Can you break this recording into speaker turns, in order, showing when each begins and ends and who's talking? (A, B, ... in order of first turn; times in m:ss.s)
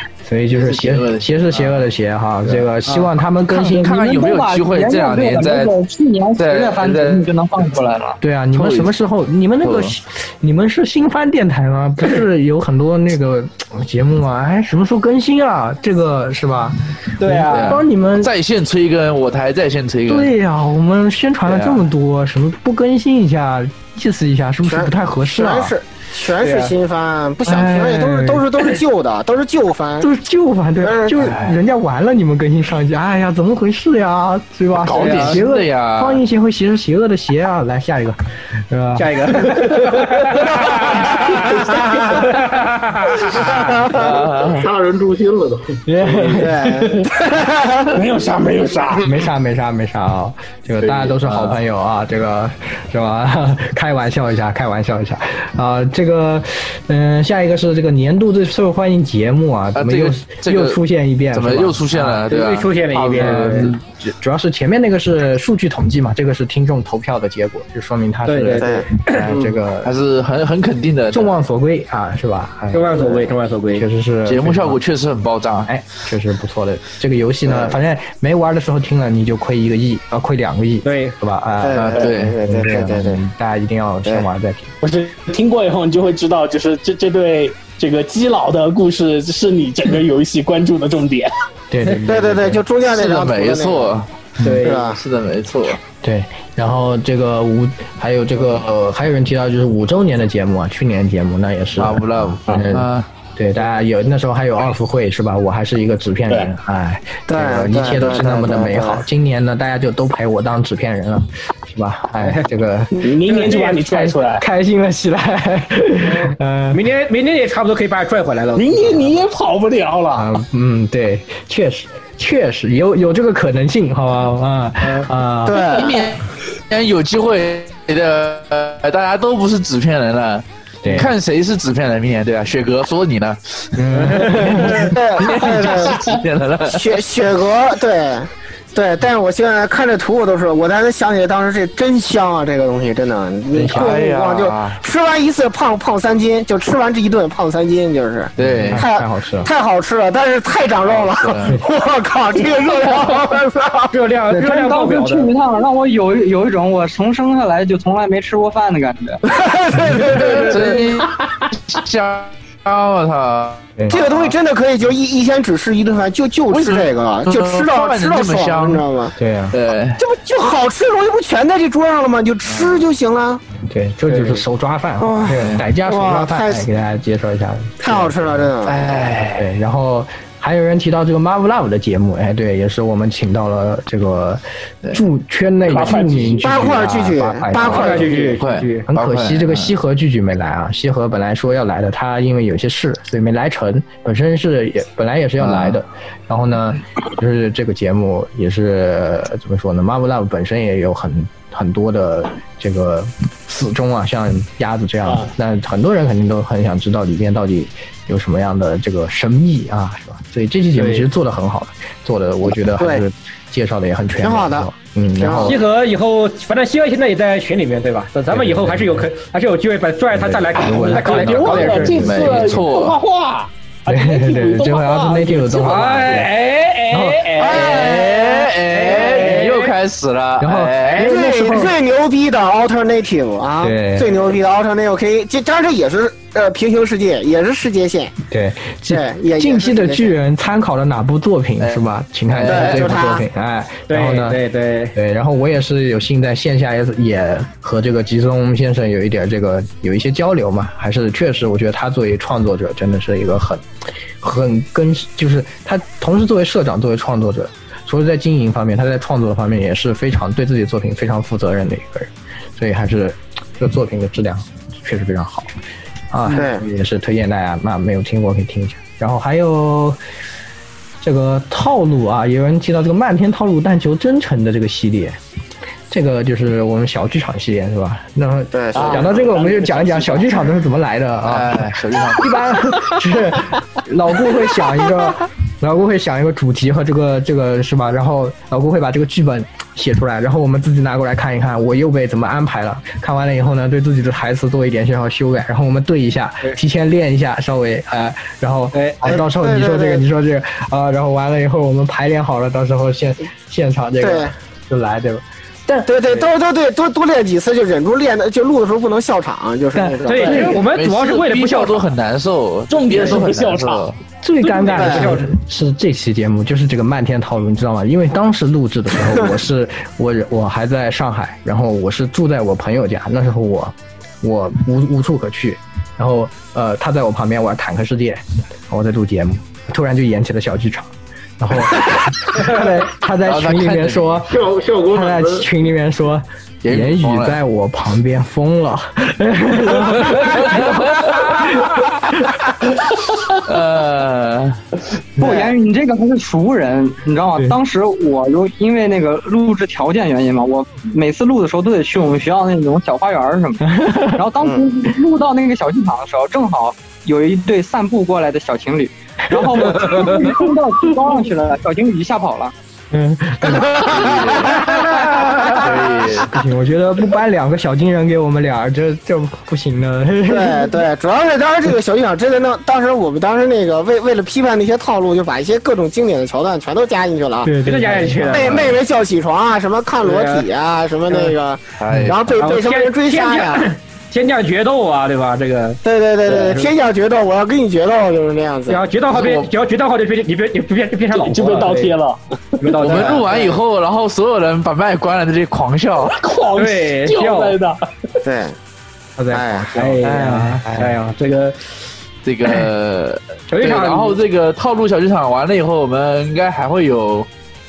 0:00.2-0:03.9 A
0:00.5-0:01.9 B
0:03.5-0:05.8 B
0:03.6-0:08.2 C
0:06.4-0:07.3 B
0:08.2-0:18.3 A
0:08.5-0:08.9 B
0:09.6-0:10.0 B
0:17.2-0:17.8 D
0:17.5-0:20.3 B
0:20.1-0:25.8 A
0:21.5-0:21.8 B
0:24.7-0:30.1 E
0:26.4-0:26.7 D
0:27.4-0:28.7 A
0:30.0-0:40.1 A
0:30.8-0:31.2 E
0:31.2-0:31.6 B
0:34.8-0:36.2 B
0:34.9-0:35.4 D
0:39.0-0:43.6 D
0:41.6-0:42.1 E
0:43.3-0:44.2 E
0:43.9-0:44.7 B
0:44.4-0:45.8 F
0:45.9-0:47.1 A
0:46.3-0:47.9 E
0:47.9-0:49.1 G
0:49.0-1:02.3 A
0:51.2-0:51.6 B
0:59.8-1:00.8 B
1:01.3-1:03.8 B
1:02.3-1:03.7 D
1:03.2-1:09.9 A
1:08.3-1:09.3 D
1:08.6-1:08.9 E
1:09.8-1:11.3 B
1:11.1-1:14.8 A
1:12.7-1:13.8 D
1:14.3-1:15.7 B
1:15.7-1:24.7 A
1:17.5-1:17.8 E
1:20.8-1:21.2 D
1:21.6-1:23.2 E
1:21.8-1:22.4 B
1:24.8-1:31.3 G
1:31.7-1:32.6 A
1:32.1-1:33.9 E
1:32.8-1:34.1 B
1:34.4-1:34.8 D
1:34.6-1:35.0 E
1:34.7-1:35.8 B
1:36.0-1:53.1 A
1:41.8-1:43.1 B
1:47.3-1:49.0 E
1:52.9-1:54.4 G
1:53.3-1:53.8 D
1:53.9-1:56.8 A
1:56.0-1:59.2 D
1:58.6-2:00.3 G
2:00.2-2:05.6 A
2:04.8-2:05.1 D
2:05.5-2:06.0 E
2:05.6-2:13.9 B
2:10.8-2:11.1 A
2:13.8-2:15.0 A
2:14.0-2:14.9 D
2:14.8-2:16.1 E
2:15.2-2:17.0 B
2:16.7-2:33.9 E
2:23.5-2:24.0 A
2:23.7-2:24.8 B
2:28.4-2:28.8 B
2:28.4-2:29.5 A
2:30.8-2:31.5 B
2:33.9-2:35.3 D
2:34.3-2:39.2 C
2:39.3-2:40.9 E
2:40.1-2:44.4 B
2:43.9-2:49.1 E
2:46.5-2:48.8 B
2:49.2-2:49.6 A
2:49.5-2:50.0 B
2:50.0-2:53.4 E
2:52.4-2:52.9 B
2:53.6-2:58.5 A
2:54.1-2:54.4 D
2:55.0-2:56.6 E
2:57.8-2:58.8 E
2:58.6-2:59.5 B
2:59.3-3:08.3 A
3:05.7-3:06.6 G
3:06.4-3:08.4 E
3:07.6-3:08.9 D
3:08.4-3:09.7 B
3:08.9-3:35.6 A
3:15.4-3:15.8 B
3:30.8-3:31.0 D
3:32.8-3:33.0 E
3:34.2-3:35.6 E
3:35.4-3:42.0 D
3:38.3-3:39.1 A
3:40.1-3:42.5 A
3:40.7-3:45.9 G
3:41.1-3:43.0 B
3:43.9-3:46.3 A
3:45.6-3:48.0 D
3:46.9-3:47.3 A
3:47.4-3:48.9 E
3:47.5-3:51.1 B
3:48.7-3:49.7 D
3:50.4-3:51.8 A
3:50.9-3:58.2 E
3:53.6-3:54.2 A
3:58.3-4:04.4 A
3:58.9-4:00.2 E
4:01.6-4:01.9 B
4:02.4-4:02.7 D
4:02.4-4:03.2 E
4:03.9-4:05.0 D
4:05.0-4:13.6 A
4:14.2-4:25.5 A
4:26.1-4:30.0 A
4:26.3-4:26.6 E
4:31.0-4:35.2 A
4:35.9-5:05.9 A
4:38.5-4:39.2 E
4:38.8-4:40.3 G
4:41.2-4:42.6 B
4:58.7-4:59.0 D
4:59.0-5:00.0 E
5:04.0-5:04.3 E
5:05.9-5:10.6 E
5:09.8-5:10.6 A
5:10.1-5:11.9 D
5:10.7-5:14.0 B
5:12.7-5:13.9 G
5:14.2-5:34.3 A
5:14.4-5:15.3 D
5:14.8-5:15.2 E
5:33.2-5:34.3 B
5:34.3-5:35.5 F
5:34.9-5:42.2 A
5:36.6-5:37.4 B
5:39.9-5:41.6 B
5:43.4-5:44.6 B
5:45.2-6:02.5 C
5:53.6-5:54.3 A
6:02.9-6:05.4 A
6:03.8-6:06.4 B
6:06.2-6:10.8 A
6:10.3-6:17.5 E
6:17.4-6:18.8 A
6:17.6-6:18.5 D
6:18.3-6:23.7 E
6:20.0-6:20.5 D
6:21.1-6:21.4 D
6:21.8-6:22.2 B
6:21.9-6:22.2 A
6:22.4-6:26.7 D
6:25.8-6:28.8 E
6:28.7-6:31.9 D
6:29.1-6:29.5 B
6:31.1-6:32.2 G
6:32.6-6:33.2 D
6:32.8-6:36.1 B
6:33.0-6:33.6 E
6:36.0-6:37.8 G
6:36.6-6:37.6 D
6:38.2-6:38.6 E
6:39.2-6:41.1 A
6:39.3-6:39.7 E
6:39.8-6:41.7 D
6:42.2-6:47.3 B
6:43.5-6:44.2 D